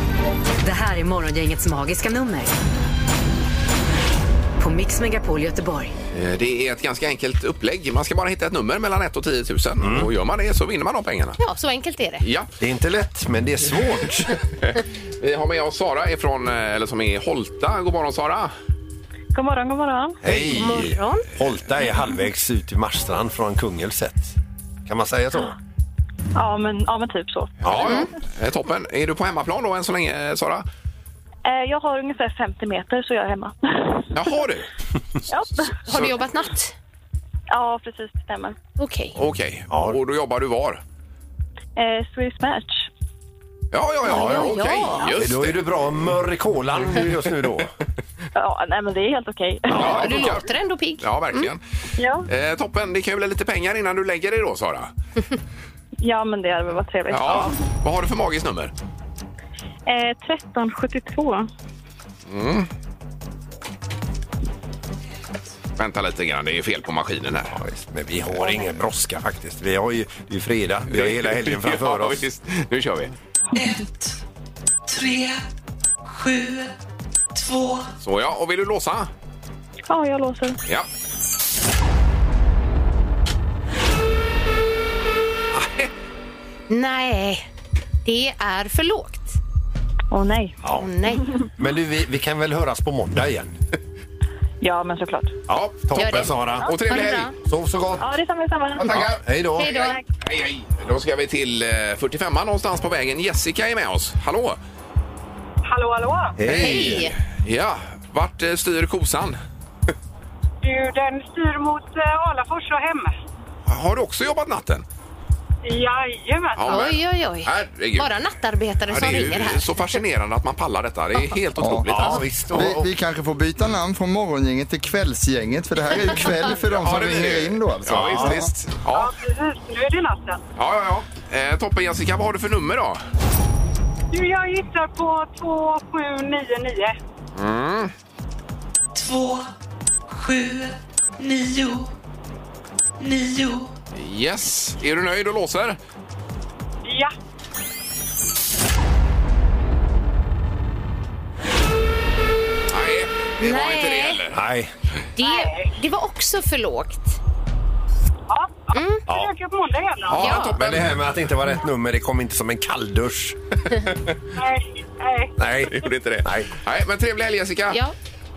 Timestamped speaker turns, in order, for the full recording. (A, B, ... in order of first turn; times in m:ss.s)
0:00.6-0:02.5 A
0:04.6-0:05.9 A
0:06.1-0:11.4 B
0:09.8-0:10.1 C
0:11.4-0:12.2 D
0:12.2-0:12.5 B
0:12.6-0:14.4 C
0:14.6-0:18.5 B
0:19.3-0:20.2 E
0:20.2-0:25.6 C
0:20.2-0:21.3 D
0:26.4-0:28.0 E
0:27.6-0:28.0 C
0:27.6-0:30.6 B
0:31.4-0:34.4 E
0:34.1-0:34.7 B
0:35.3-0:36.1 B
0:35.3-0:35.7 E
0:35.8-0:36.7 D
0:37.5-0:38.6 E
0:38.8-0:39.2 D
0:39.1-0:40.8 B
0:39.7-0:40.0 C
0:41.8-0:42.9 E
0:43.7-0:45.6 B
0:44.0-0:45.2 D
0:44.1-0:47.7 C
0:48.3-0:49.9 E
0:49.7-0:51.5 D
0:49.7-0:50.5 B
0:49.7-0:50.2 C
0:51.0-0:51.6 B
0:52.0-0:52.3 E
0:52.2-0:54.9 B
0:56.0-0:57.6 E
0:57.1-0:58.7 B
0:59.8-1:01.5 E
1:02.3-1:02.7 B
1:05.8-1:07.6 B
1:07.5-1:12.2 C
1:10.9-1:13.1 B
1:13.5-1:14.2 F
1:14.9-1:15.4 F
1:16.0-1:16.7 F
1:17.3-1:17.9 F
1:18.0-1:19.1 B
1:19.9-1:20.6 E
1:25.5-1:25.9 B
1:26.7-1:27.5 D
1:28.0-1:29.4 D
1:30.1-1:30.6 E
1:30.6-1:30.9 C
1:30.8-1:31.3 D
1:31.6-1:33.6 C
1:34.6-1:35.3 E
1:35.5-1:36.7 C
1:35.5-1:37.3 B
1:36.0-1:37.3 D
1:37.4-1:38.1 C
1:38.0-1:39.1 E
1:38.8-1:44.6 B
1:38.8-1:39.9 C
1:39.6-1:40.0 D
1:45.6-1:46.4 G
1:46.4-1:47.1 C
1:46.4-1:49.4 B
1:46.5-1:47.1 D
1:50.6-1:53.1 G
1:53.6-1:54.8 B
1:55.6-1:56.6 G
1:56.6-1:58.1 B
1:56.7-1:59.7 D
1:58.9-2:02.7 B
2:01.6-2:08.5 H
2:01.9-2:02.9 C
2:06.6-2:09.1 B
2:07.9-2:08.4 C
2:08.9-2:10.4 G
2:10.6-2:13.0 B
2:14.1-2:17.0 G
2:17.3-2:17.9 B
2:18.9-2:19.5 F
2:20.1-2:21.9 F
2:23.0-2:23.8 F
2:23.9-2:25.8 B
2:26.8-2:27.1 G
2:32.7-2:34.4 B
2:33.4-2:34.2 D
2:34.3-2:34.7 C
2:35.2-2:37.2 D
2:35.2-2:35.7 G
2:38.3-2:40.4 G
2:38.7-2:39.0 D
2:40.0-2:41.0 B
2:40.2-2:40.6 D
2:40.4-2:43.4 C
2:44.4-2:45.3 G
2:45.4-2:46.5 C
2:45.6-2:47.8 B